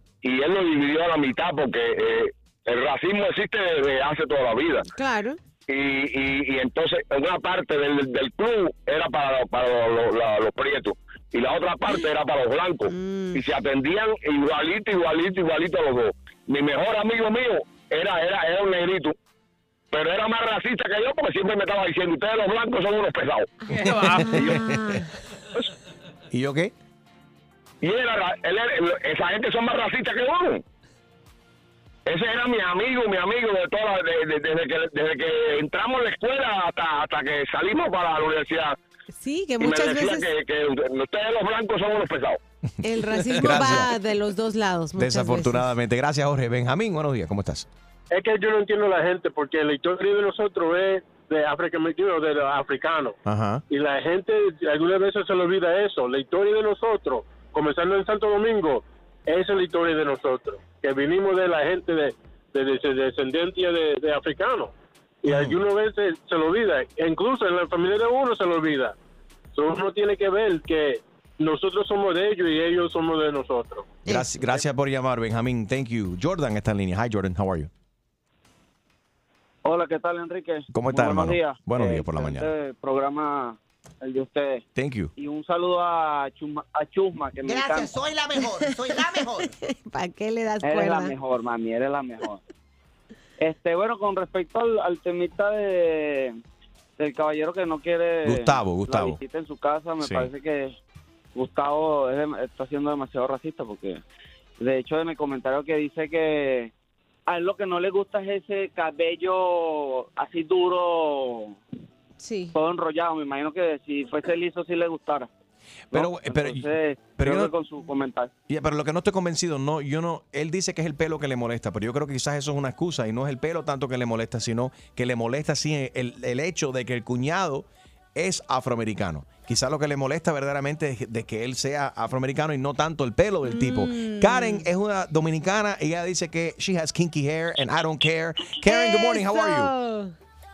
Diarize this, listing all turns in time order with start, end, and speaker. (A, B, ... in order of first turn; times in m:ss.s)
0:00.2-0:04.8 A
0:04.9-0:05.4 B
0:05.7-0:19.1 A
0:12.9-0:13.4 B
0:19.9-0:23.5 A
0:23.7-0:24.8 C
0:23.8-0:25.1 B
0:26.3-0:26.7 C
0:27.8-0:30.6 A
0:32.1-0:38.8 A
0:39.1-0:40.3 B
0:39.6-0:42.4 A
0:42.8-0:45.6 B
0:43.4-0:43.9 C
0:45.0-0:47.7 C
0:48.1-0:53.1 D
0:53.2-0:53.6 C
0:53.7-1:04.7 D
1:05.2-1:08.9 D
1:05.3-1:05.6 C
1:09.5-1:14.0 D
1:14.0-1:17.7 C
1:19.6-1:24.6 E
1:20.7-1:22.5 C
1:24.8-1:25.1 C
1:25.2-1:27.9 E
1:27.4-1:29.5 F
1:29.6-1:31.1 B
1:30.6-1:32.4 E
1:33.4-1:36.3 E
1:37.0-1:40.8 E
1:38.2-1:39.2 C
1:40.0-1:40.3 C
1:41.4-1:44.0 E
1:44.6-1:46.7 E
1:47.3-1:51.6 E
1:52.2-1:52.5 B
1:52.5-1:55.3 E
1:55.9-1:57.5 C
1:55.9-1:58.3 E
1:58.5-2:19.7 C
2:13.4-2:14.6 B
2:18.6-2:20.1 B